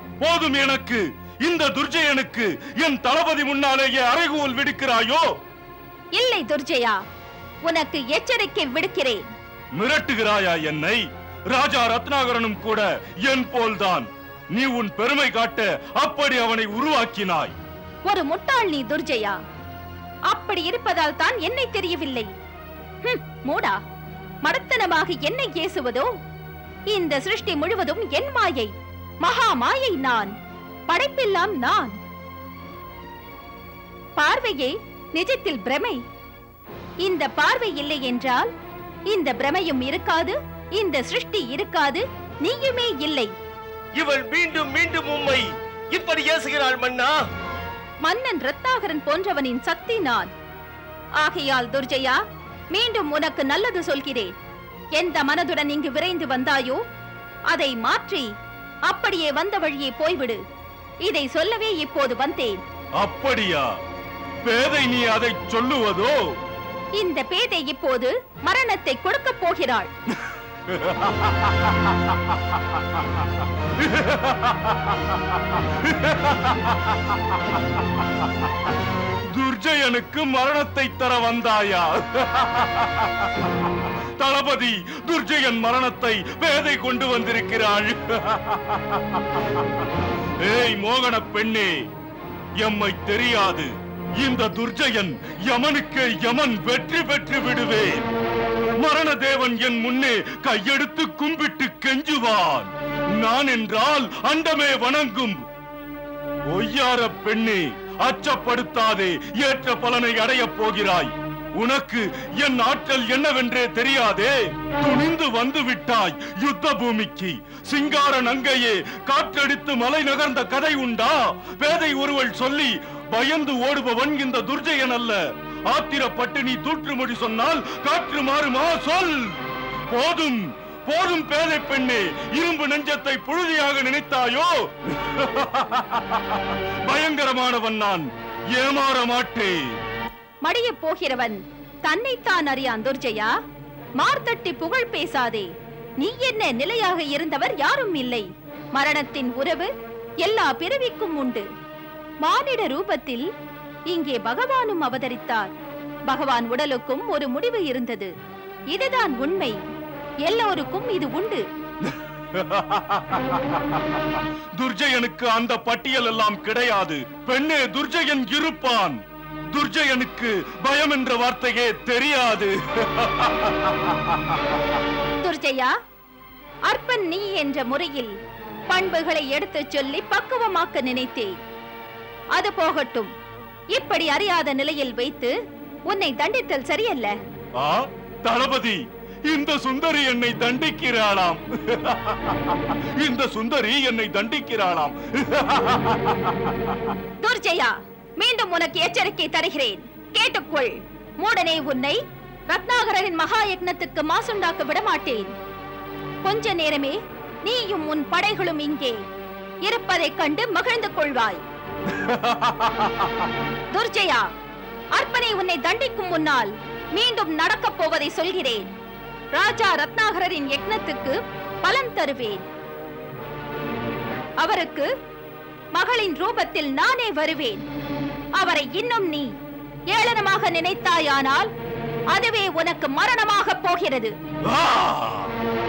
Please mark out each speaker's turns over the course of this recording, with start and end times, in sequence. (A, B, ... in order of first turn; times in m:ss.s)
0:00.2-0:05.2 A
0:06.2-0:07.0 B
0:07.7-0:09.2 B
0:09.8-0:11.0 A
0:11.5-0:17.6 A
0:18.1-0:19.4 B
0:20.3-0:22.3 B
0:23.0-0:23.8 B
0:24.5-0:26.1 B
0:26.9-0:28.7 B
0:29.2-0:30.3 B
0:30.9-0:32.0 B
0:34.2-0:36.0 B
0:37.0-0:38.5 B
0:39.1-0:43.3 B
0:44.0-0:47.1 C
0:48.0-0:50.3 B
0:51.2-0:52.2 B
0:52.7-0:54.3 B
0:55.0-0:56.8 B
0:57.5-0:58.3 B
0:58.9-1:00.4 B
1:01.1-1:02.6 B
1:03.0-1:03.7 A
1:04.4-1:06.2 A
1:07.0-1:09.9 B
1:10.7-1:13.0 A
1:13.8-1:17.2 A
1:19.4-1:29.6 A
1:30.4-1:31.7 A
1:32.6-1:38.0 A
1:38.8-1:45.4 A
1:46.5-2:05.2 A
2:05.7-2:09.4 A
2:09.9-2:19.6 A
2:20.5-2:23.3 B
2:24.0-2:25.5 B
2:26.0-2:29.7 B
2:30.2-2:31.4 B
2:32.2-2:33.2 B
2:33.9-2:35.5 B
2:36.1-2:38.1 B
2:38.7-2:39.6 B
2:40.3-2:41.4 B
2:41.8-2:49.0 A
2:49.5-2:54.4 A
2:55.2-2:55.7 B
2:56.7-2:58.1 B
2:58.7-3:01.3 B
3:02.4-3:03.1 B
3:03.7-3:05.3 B
3:05.9-3:07.1 B
3:07.6-3:16.9 A
3:17.2-3:25.3 B
3:26.2-3:29.0 B
3:29.7-3:31.4 B
3:31.9-3:33.1 A
3:33.8-3:34.3 B
3:35.0-3:38.7 B
3:39.4-3:42.4 B
3:44.4-3:44.9 B
3:45.8-3:47.6 B
3:48.4-3:49.3 B
3:49.9-3:51.5 B
3:52.1-3:54.1 B
3:54.5-3:55.3 A